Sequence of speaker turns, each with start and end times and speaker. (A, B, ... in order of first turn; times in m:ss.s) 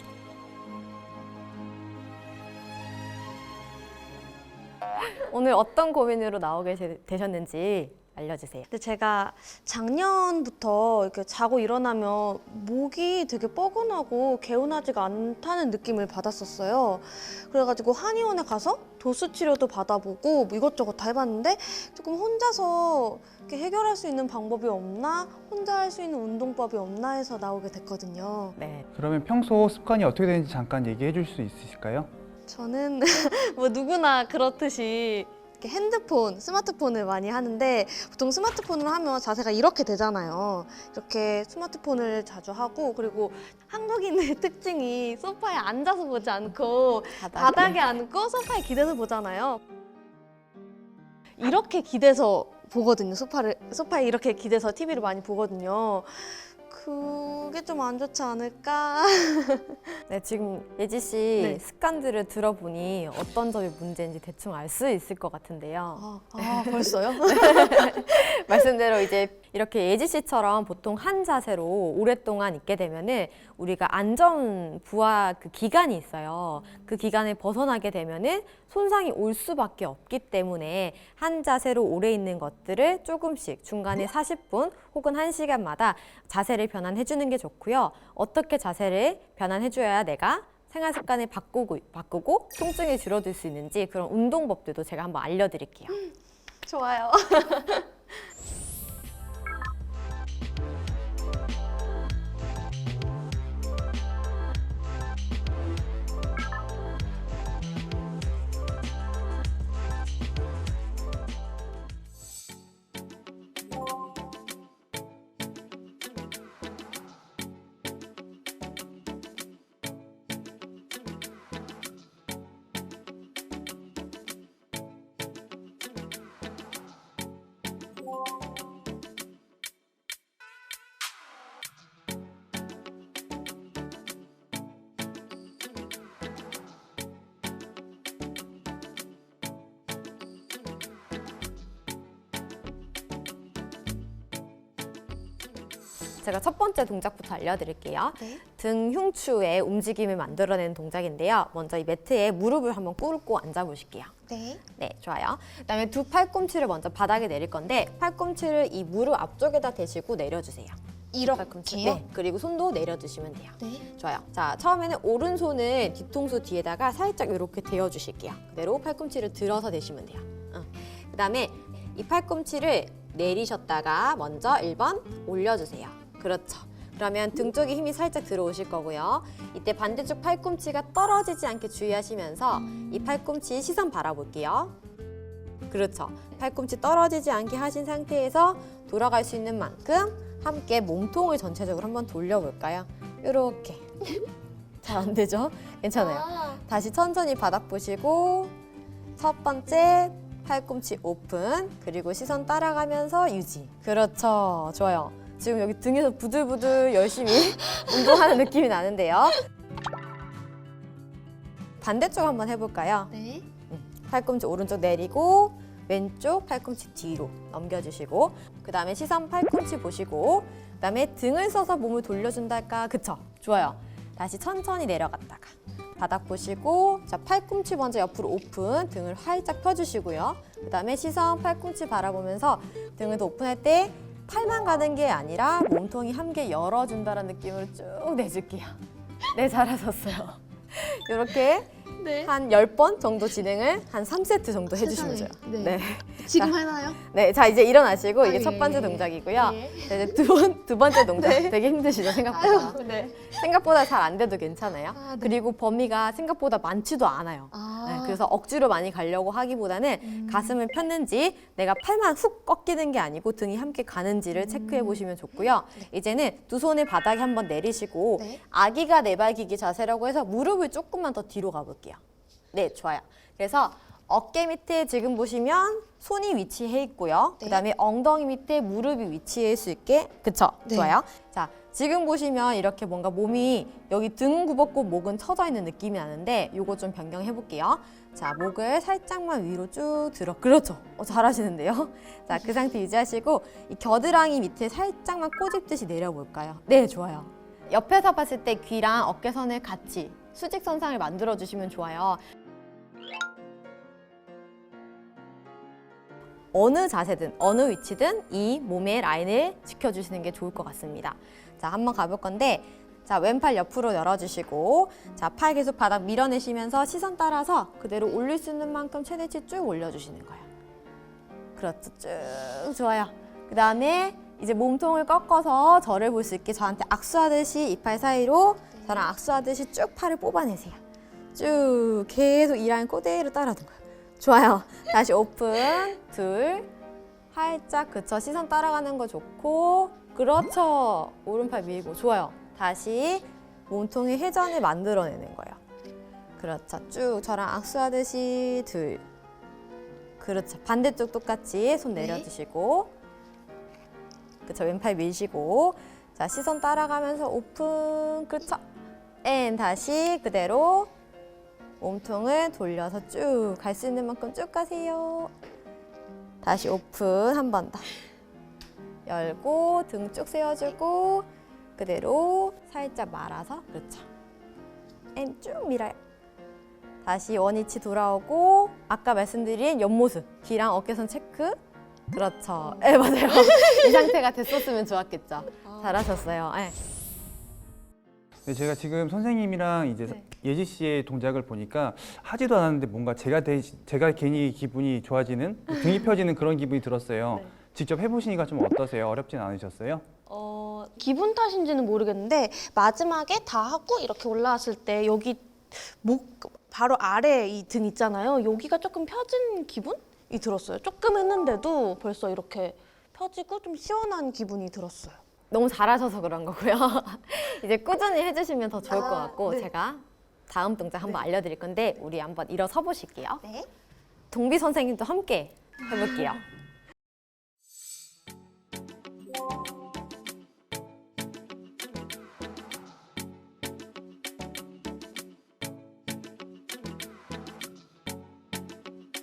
0:05.0-0:08.7 A
0:08.7-0:28.6 B
0:28.6-0:28.9 A
0:28.9-0:32.1 C
0:32.5-0:49.6 B
0:47.2-0:47.8 A
0:51.4-0:59.9 B
1:00.1-1:36.0 A
1:06.0-1:08.1 B
1:36.7-1:37.9 B
2:26.2-2:34.1 A
2:34.3-2:34.6 B
2:34.7-3:04.8 A
2:41.1-2:42.0 B
3:05.7-3:14.2 A
3:14.8-3:18.5 A
3:19.2-3:29.4 A
3:31.8-3:58.8 A
3:33.2-3:33.4 B
3:59.3-4:32.0 A
4:02.0-4:02.3 B
4:04.8-4:07.0 B
4:08.2-4:09.9 B
4:11.1-4:11.5 B
4:12.3-4:13.3 B
4:15.0-4:15.3 B
4:17.5-4:18.2 B
4:20.2-4:20.5 B
4:24.6-4:25.0 B
4:32.5-5:02.2 A
4:40.7-4:41.0 B
5:06.5-5:20.5 A
5:21.6-5:30.8 A
5:31.4-5:36.7 A
5:37.3-5:45.6 A
5:46.4-5:49.0 A
5:50.2-5:52.9 A
5:54.5-5:58.6 A
5:59.2-6:00.9 A
6:01.8-6:05.3 A
6:06.4-6:07.9 A
6:09.1-6:14.1 A
6:15.2-6:16.0 A
6:17.0-6:21.6 A
6:22.1-6:26.8 A
6:28.4-6:40.0 C
6:40.3-6:55.2 B
6:55.5-7:03.6 A
6:59.1-6:59.5 B
7:04.3-7:06.4 A